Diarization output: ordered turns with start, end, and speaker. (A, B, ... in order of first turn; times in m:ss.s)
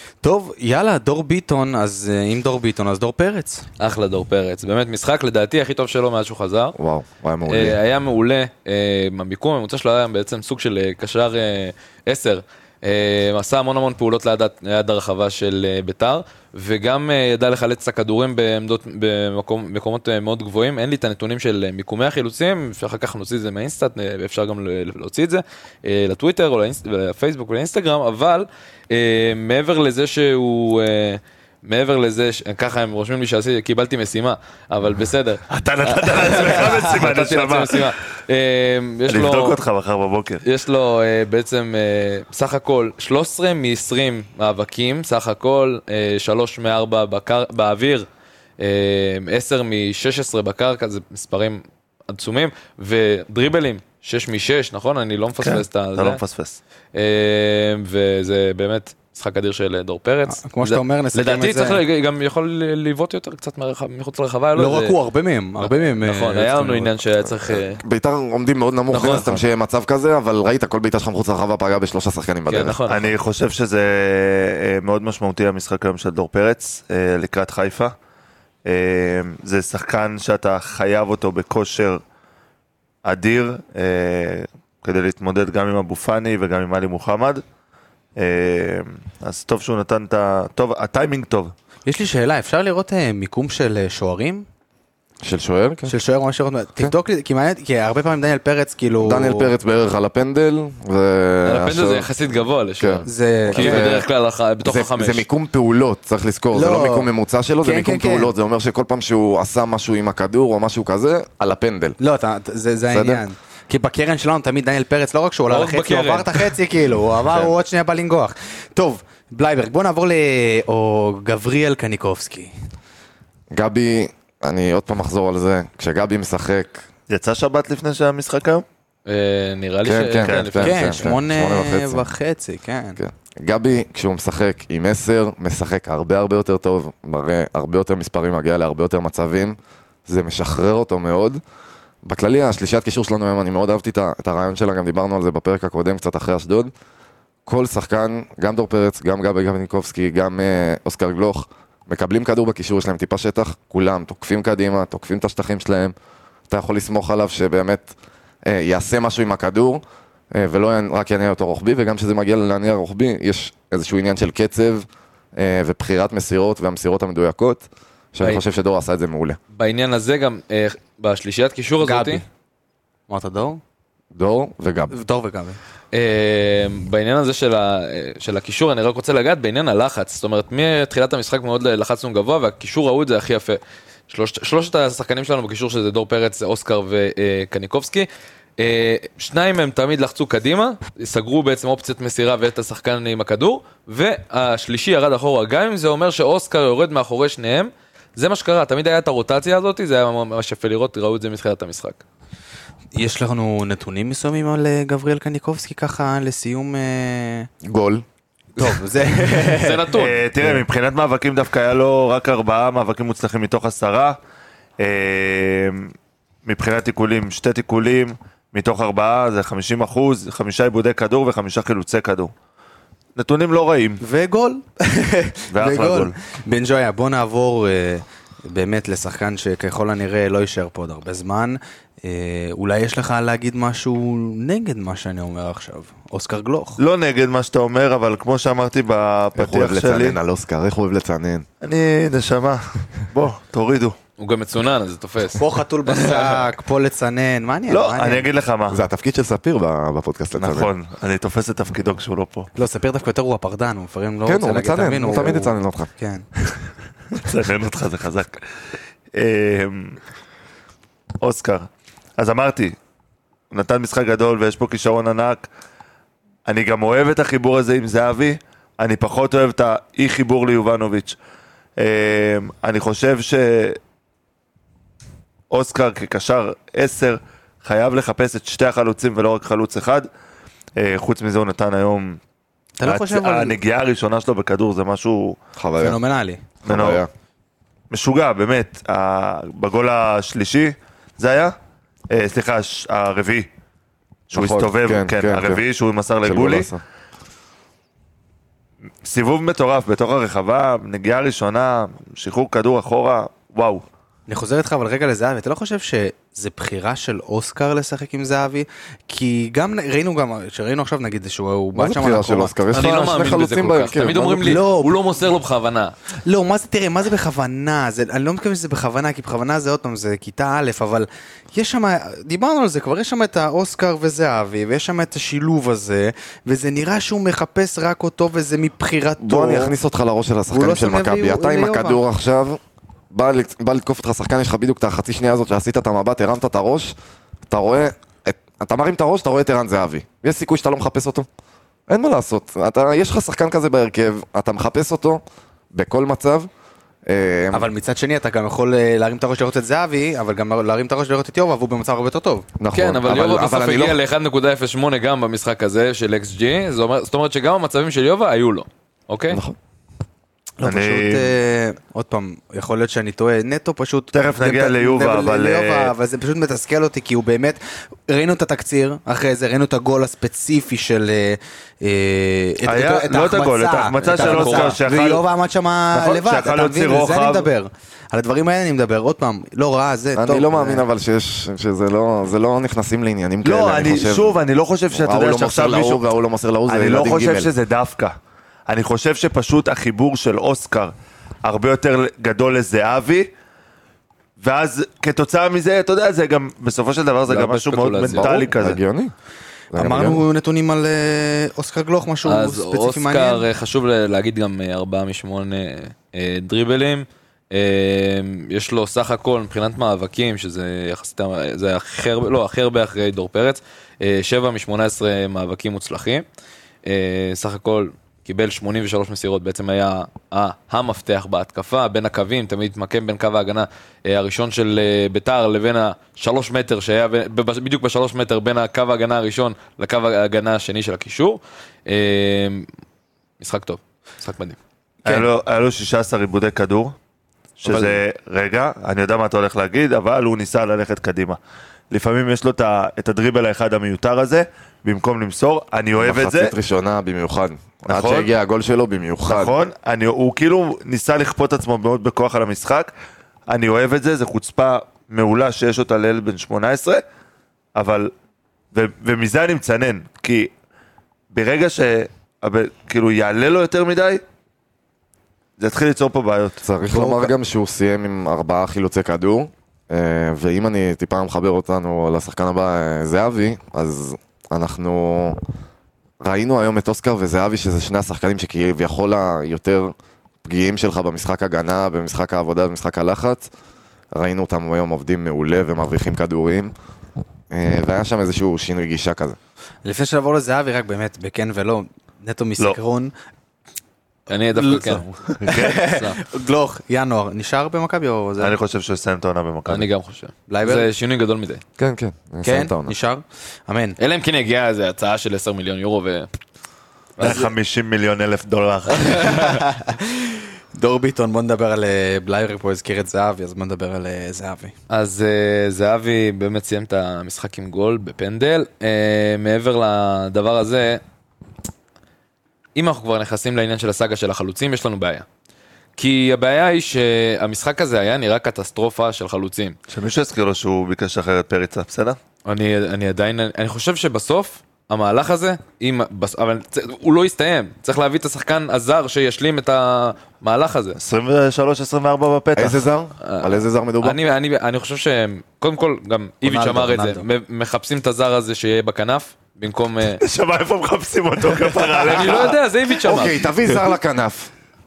0:00.2-0:03.6 A
0:03.8-0:06.8 B
0:06.7-0:07.8 C
0:07.5-0:39.6 B
0:35.5-0:37.9 D
0:39.1-0:40.4 D
0:40.4-0:48.1 B
0:48.6-0:56.2 B
0:55.4-0:56.6 D
0:56.9-1:05.0 B
1:00.3-1:01.8 A
1:04.6-1:06.9 A
1:05.6-1:07.8 B
1:07.3-1:12.8 C
1:08.9-1:09.4 B
1:12.5-1:13.1 B
1:12.9-1:17.9 D
1:18.6-1:22.0 D
1:23.0-1:27.4 D
1:28.2-1:31.5 D
1:31.9-1:34.4 A
1:35.2-1:35.9 C
1:35.9-1:39.5 A
1:39.0-1:42.1 C
1:41.4-1:45.2 B
1:42.8-1:44.1 C
1:43.0-1:44.0 A
1:44.6-1:52.0 C
1:46.5-1:47.1 A
1:47.6-1:48.3 A
1:52.0-2:02.5 A
1:52.9-1:53.2 C
1:55.5-1:56.5 B
2:03.5-2:06.8 C
2:07.1-2:08.6 D
2:09.0-2:11.0 B
2:09.8-2:12.1 C
2:10.6-2:13.0 A
2:13.0-2:21.4 C
2:22.0-2:26.7 C
2:27.4-2:35.9 C
2:36.5-2:37.9 C
2:38.4-2:49.4 C
2:49.5-2:52.2 B
2:51.8-2:52.2 A
2:53.1-2:53.6 A
2:54.1-2:54.9 C
2:54.9-2:55.6 A
2:55.9-3:22.0 B
3:22.9-3:27.5 A
3:27.6-3:28.0 C
3:28.6-3:29.9 A
3:29.3-3:30.2 B
3:29.9-3:34.2 D
3:34.8-3:35.9 D
3:36.4-3:42.3 D
3:43.2-3:44.0 D
3:44.0-3:56.8 A
3:45.5-3:46.1 D
3:56.8-4:00.2 D
3:59.4-4:01.4 C
4:01.6-4:04.0 D
4:04.2-4:06.4 B
4:05.4-4:08.3 A
4:07.7-4:08.8 D
4:08.7-4:10.7 C
4:10.4-4:12.5 D
4:12.5-4:16.2 A
4:14.2-4:15.9 C
4:17.1-4:18.4 D
4:19.1-4:20.0 D
4:21.2-4:22.8 D
4:23.5-4:25.5 D
4:26.4-4:31.2 D
4:31.8-4:33.8 D
4:35.5-4:40.1 D
4:40.8-4:42.2 D
4:42.8-4:43.6 A
4:42.8-4:45.4 D
4:45.6-4:46.0 C
4:45.8-4:46.4 A
4:46.6-4:47.1 C
4:46.6-4:47.0 D
4:47.9-4:51.5 D
4:52.1-4:53.5 D
4:54.3-4:56.7 D
4:54.3-4:55.6 C
4:56.2-4:56.8 C
4:59.0-5:03.8 D
5:04.3-5:12.5 A
5:11.7-5:14.6 C
5:12.7-5:15.9 B
5:14.4-5:15.0 A
5:16.2-5:29.8 A
5:29.2-5:32.6 C
5:30.5-5:32.0 A
5:33.1-5:36.9 C
5:37.5-5:41.3 C
5:41.9-5:45.2 C
5:45.7-5:46.5 C
5:47.0-5:47.7 C
5:47.5-5:52.4 A
5:52.6-5:54.0 C
5:52.7-5:59.4 B
5:59.3-5:59.6 C
6:00.6-6:20.8 A
6:00.6-6:01.3 D
6:04.1-6:05.9 D
6:12.6-6:15.2 D
6:14.0-6:14.8 B
6:15.9-6:17.5 D
6:20.2-6:24.4 C
6:23.4-6:26.0 D
6:24.9-6:27.5 C
6:26.7-6:28.2 D
6:28.7-6:33.3 D
6:34.4-6:38.8 D
6:37.3-6:38.4 B
6:38.2-6:39.1 C
6:39.7-6:40.2 C
6:39.8-6:43.4 A
6:42.2-6:56.2 B
6:56.9-7:12.7 B
7:13.4-7:14.6 B
7:15.0-7:16.9 D
7:17.6-7:21.4 D
7:21.9-7:26.5 D
7:26.0-7:29.5 C
7:27.9-7:28.3 D
7:29.3-7:32.9 D
7:33.5-7:37.0 D
7:37.7-7:38.1 D
7:38.7-7:40.5 D
7:41.3-7:44.2 D
7:45.6-7:46.6 D
7:46.6-7:55.4 C
7:46.9-7:47.3 A
7:56.2-8:03.5 C
8:04.1-8:06.7 C
8:07.5-8:09.4 C
8:09.8-8:13.1 A
8:14.3-8:15.1 B
8:14.5-8:18.6 A
8:15.4-8:15.9 D
8:15.8-8:16.2 B
8:18.4-8:19.9 D
8:19.7-8:21.6 B
8:20.5-8:20.9 A
8:21.8-8:22.9 C
8:22.4-8:24.0 A
8:24.0-8:26.3 B
8:27.2-8:27.5 B
8:27.2-8:29.5 D
8:29.0-8:34.7 A
8:34.9-8:41.0 B
8:42.7-8:45.2 B
8:46.0-8:49.8 B
8:49.9-8:52.2 D
8:52.4-9:01.0 B
9:01.0-9:02.8 D
9:02.6-9:04.2 C
9:03.2-9:10.2 B
9:06.4-9:07.2 A
9:10.2-9:12.6 D
9:11.9-9:13.5 B
9:13.0-9:14.5 C